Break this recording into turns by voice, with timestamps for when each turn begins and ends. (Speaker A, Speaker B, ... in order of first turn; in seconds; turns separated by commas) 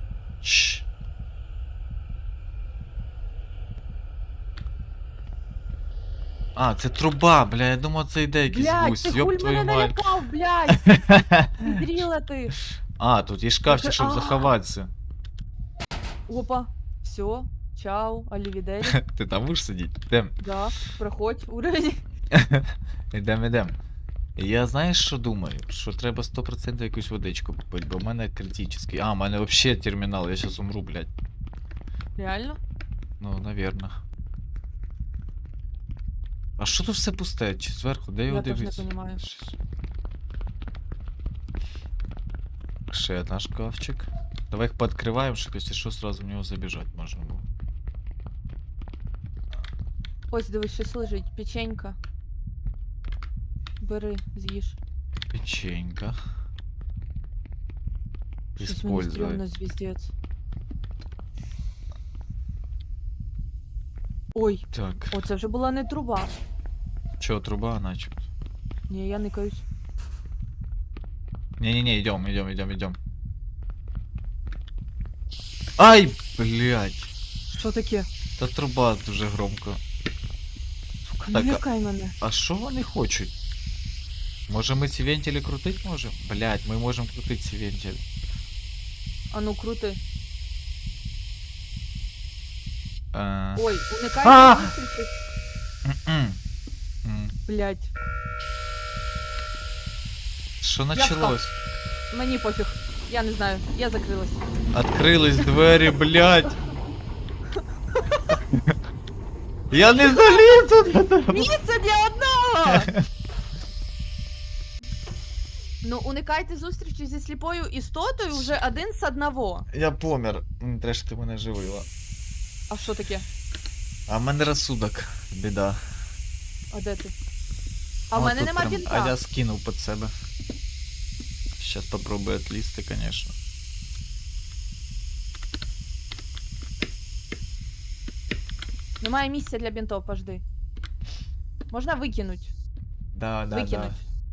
Speaker A: 0.4-0.8, Speaker A: 6.6-10.0, Speaker B: 8.5-11.0, Speaker A: 10.7-11.8, Speaker B: 11.6-12.6, Speaker A: 13.0-14.9, Speaker B: 13.7-14.6, Speaker B: 16.3-19.0, Speaker A: 18.9-20.3, Speaker B: 20.4-22.0, Speaker A: 22.3-23.8, Speaker A: 24.4-31.1, Speaker B: 32.2-32.6, Speaker A: 33.2-33.9, Speaker A: 36.6-39.6, Speaker B: 38.3-39.2, Speaker A: 42.9-47.5, Speaker B: 50.3-52.0, Speaker B: 53.8-54.8, Speaker A: 55.3-56.2, Speaker B: 58.6-60.1, Speaker A: 58.6-59.4, Speaker B: 64.3-66.4, Speaker A: 64.7-65.1, Speaker A: 67.2-68.3, Speaker B: 68.9-69.7, Speaker A: 71.6-73.0, Speaker A: 75.8-77.1, Speaker B: 77.5-78.1, Speaker A: 78.4-79.8, Speaker B: 81.1-82.2, Speaker A: 81.3-81.6, Speaker A: 82.2-83.3, Speaker A: 84.5-88.0, Speaker B: 89.3-90.0, Speaker A: 93.1-94.7, Speaker B: 93.6-95.1, Speaker A: 95.9-96.4, Speaker A: 97.0-97.3, Speaker B: 97.5-97.9, Speaker A: 100.6-101.5, Speaker B: 100.9-101.4, Speaker B: 102.1-104.4, Speaker A: 104.7-106.6, Speaker B: 107.6-108.4, Speaker A: 109.7-111.5, Speaker B: 110.0-112.9, Speaker A: 112.7-113.0, Speaker B: 115.8-119.7, Speaker A: 118.3-118.6, Speaker A: 119.7-121.9, Speaker B: 122.7-123.3, Speaker A: 124.1-125.8, Speaker B: 126.7-127.1, Speaker A: 128.1-130.1, Speaker B: 128.1-129.2, Speaker A: 131.6-133.3, Speaker B: 139.0-140.4, Speaker B: 141.7-142.5, Speaker A: 143.1-144.0, Speaker B: 143.5-144.0